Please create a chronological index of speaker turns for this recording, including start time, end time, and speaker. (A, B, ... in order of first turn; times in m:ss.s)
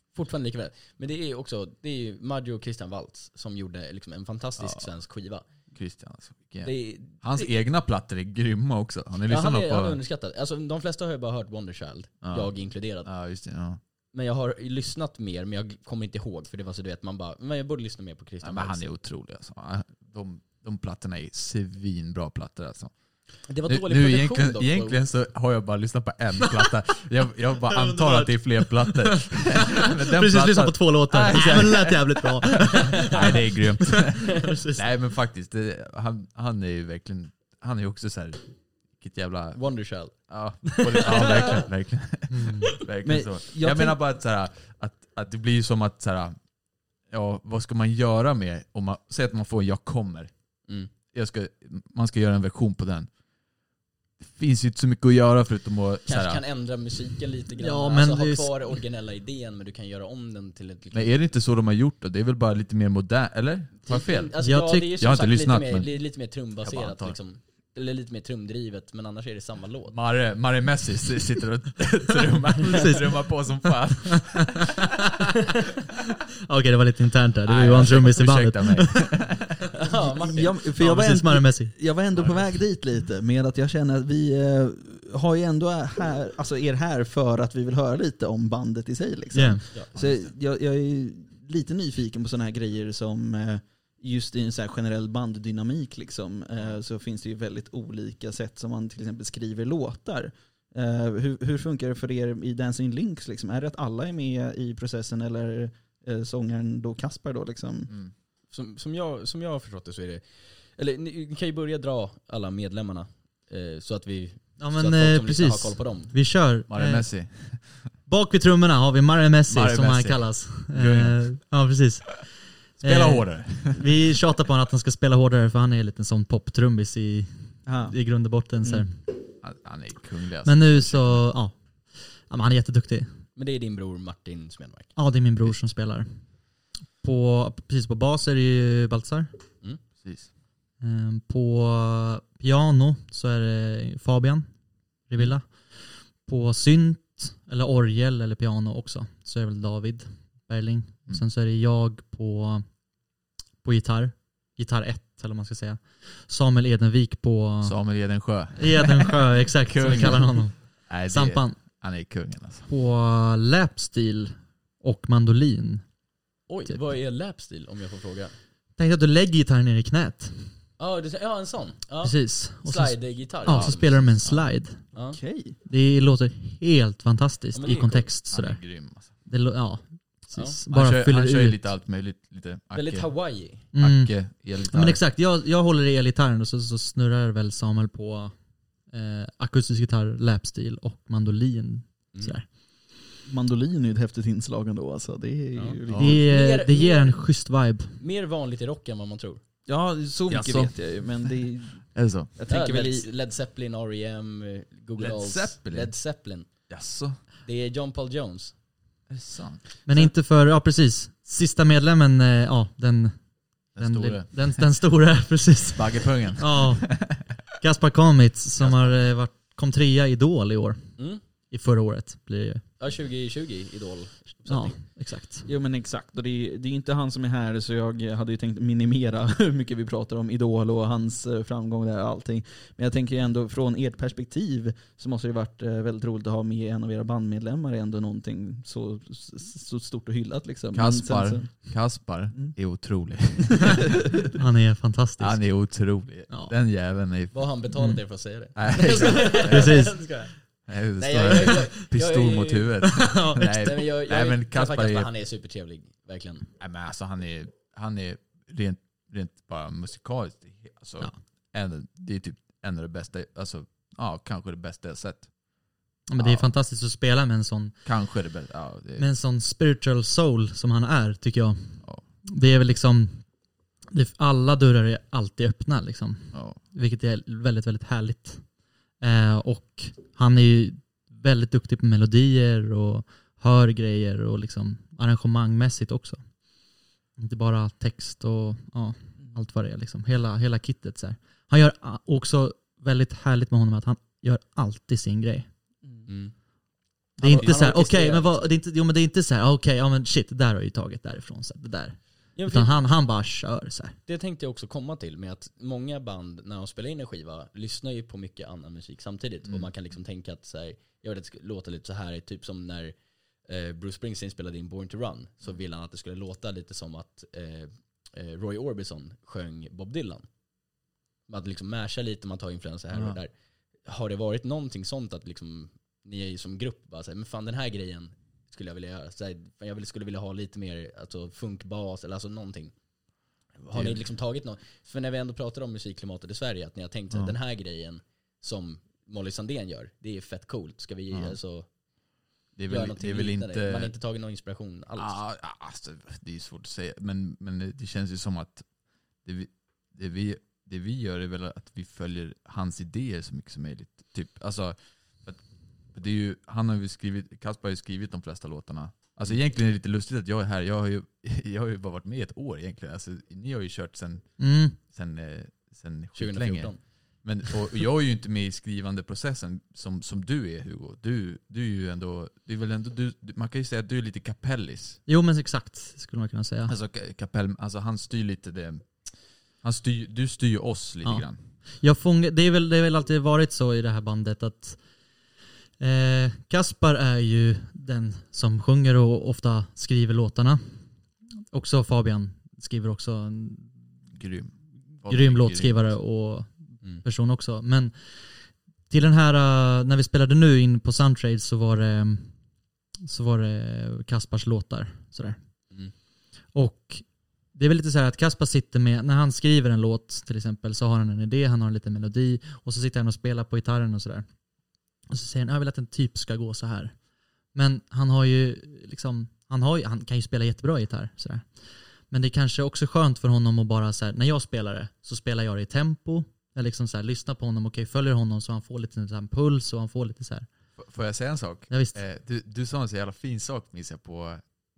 0:00.1-0:05.5 A
0:04.6-0:04.9 B
0:05.7-0:10.0 B
0:06.6-0:07.5 A
0:09.3-0:13.1 A
0:12.2-0:13.8 B
0:14.1-0:18.9 A
0:18.4-0:22.9 B
0:23.5-0:25.0 A
0:23.6-0:46.4 B
0:27.7-0:34.8 C
0:32.8-0:33.3 A
0:39.6-0:41.7 A
0:42.3-0:42.7 C
0:43.0-0:44.0 D
0:47.1-0:50.3 B
0:51.1-0:53.1 B
0:54.2-0:56.4 B
0:56.1-1:01.1 A
0:57.6-0:58.7 C
1:00.9-1:04.3 B
1:03.9-1:10.0 A
1:04.4-1:04.9 C
1:05.0-1:05.9 B
1:06.6-1:07.2 B
1:09.9-1:14.8 B
1:12.6-1:13.2 C
1:14.3-1:14.9 C
1:16.4-1:19.1 C
1:17.4-1:19.6 B
1:19.7-1:20.6 A
1:20.0-1:47.9 D
1:20.8-1:21.7 C
1:22.2-1:22.6 B
1:29.3-1:29.6 C
1:29.9-1:30.3 B
1:48.5-1:56.2 A
1:54.6-1:57.1 C
1:56.7-1:57.9 B
1:58.1-2:09.0 C
1:59.5-2:01.4 B
2:02.8-2:03.9 B
2:07.7-2:08.0 D
2:09.4-2:11.3 B
2:10.4-2:13.1 C
2:13.4-2:15.0 A
2:15.0-2:16.1 C
2:17.0-2:19.3 C
2:20.0-2:20.3 B
2:20.8-2:24.5 C
2:25.1-2:32.6 C
2:33.6-2:37.8 C
2:37.6-2:42.7 B
2:38.6-2:41.6 C
2:42.7-2:45.8 C
2:46.5-2:48.3 A
2:48.8-2:50.6 C
2:50.8-2:54.0 A
2:52.0-2:54.8 C
2:53.5-2:54.5 B
2:54.9-2:55.2 A
2:55.1-2:55.6 D
2:55.7-3:01.6 C
2:57.5-2:58.1 A
2:58.3-2:59.2 B
3:00.7-3:03.1 B
3:02.7-3:03.6 A
3:03.7-3:08.4 C
3:03.7-3:05.0 B
3:08.9-3:12.5 C
3:13.2-3:16.2 D
3:15.6-3:17.2 A
3:15.9-3:16.2 B
3:16.0-3:18.0 C
3:18.0-3:19.4 A
3:19.7-3:23.1 D
3:20.3-3:21.3 B
3:21.9-3:22.3 B
3:22.5-3:26.7 A
3:25.0-3:26.0 B
3:26.7-3:27.2 B
3:27.4-3:28.5 A
3:29.1-3:29.8 B
3:29.9-3:40.9 C
3:33.8-3:34.7 B
3:35.7-3:37.2 B
3:38.6-3:39.0 B
3:41.5-3:42.6 C
3:42.8-3:44.8 A
3:44.5-3:45.5 C
3:45.5-4:01.7 D
4:00.7-4:04.0 B
4:04.4-4:05.6 C
4:05.2-4:07.4 B
4:06.3-4:06.5 C
4:07.3-4:10.3 A
4:08.6-4:10.0 B
4:09.5-4:10.0 C
4:10.7-4:15.1 B
4:11.0-4:16.5 A
4:12.9-4:13.7 C
4:16.6-4:25.3 B
4:26.1-4:27.8 C
4:26.2-4:26.5 B
4:27.8-4:29.1 B
4:29.0-4:33.3 C
4:33.9-4:38.4 C
4:36.3-4:36.6 B
4:39.0-4:46.3 C
4:47.2-4:55.5 C
4:56.1-4:56.3 A
4:57.2-5:04.0 C
4:57.2-4:58.5 A
4:57.3-4:57.5 D
5:02.4-5:02.8 A
5:04.1-5:20.3 A
5:21.3-5:23.3 A
5:22.9-5:23.2 B
5:23.8-5:32.7 A
5:33.6-5:34.0 B
5:33.7-5:41.7 A
5:41.1-5:41.4 B
5:42.6-5:43.9 B
5:42.7-5:45.2 A
5:45.0-5:48.7 B
5:49.2-6:15.0 B
6:04.4-6:04.8 C
6:06.2-6:07.2 A
6:15.1-6:16.7 C
6:16.7-6:21.4 B
6:21.0-6:24.8 C
6:25.8-6:30.6 C
6:31.5-6:33.7 C
6:34.1-6:36.0 B
6:35.1-6:38.0 C
6:38.9-6:42.3 C
6:43.0-6:45.4 C
6:46.5-6:54.3 C
6:55.1-6:57.0 C
6:57.5-7:10.5 C
7:10.8-7:14.5 B
7:11.7-7:12.0 C